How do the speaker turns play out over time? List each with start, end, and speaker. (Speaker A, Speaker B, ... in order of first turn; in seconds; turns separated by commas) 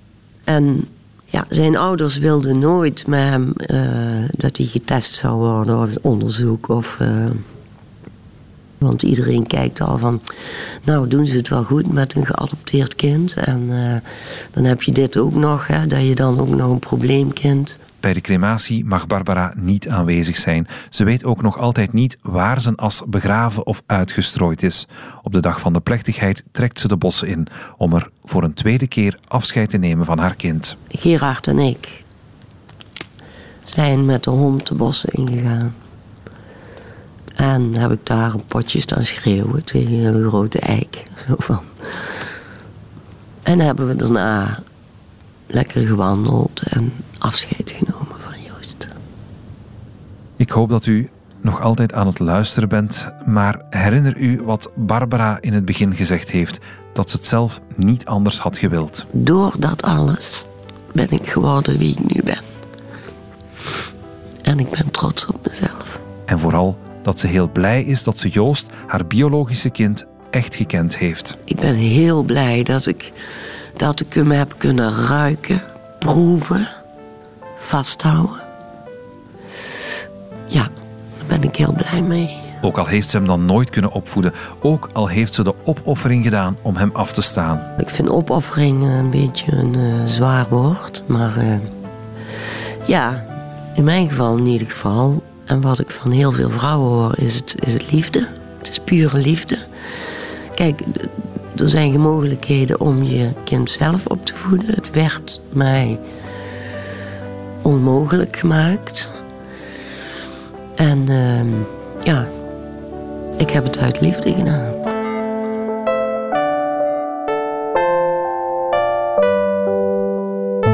Speaker A: 0.5-7.4, Speaker A: 8.8-10.2, Speaker A: 10.8-17.8, Speaker B: 18.0-30.8, Speaker A: 30.9-32.0, Speaker A: 33.7-35.7, Speaker A: 37.4-42.1, Speaker A: 43.5-44.6, Speaker A: 45.5-48.9, Speaker B: 50.4-59.1, Speaker A: 59.1-62.5, Speaker A: 64.5-66.0, Speaker B: 66.3-71.4, Speaker A: 71.5-73.2, Speaker A: 73.8-76.7, Speaker A: 77.6-78.4, Speaker A: 80.5-82.5, Speaker B: 82.6-87.7, Speaker A: 87.8-91.7, Speaker A: 92.9-99.6, Speaker A: 100.5-106.0, Speaker A: 107.6-109.1, Speaker A: 110.8-112.3, Speaker A: 113.4-114.8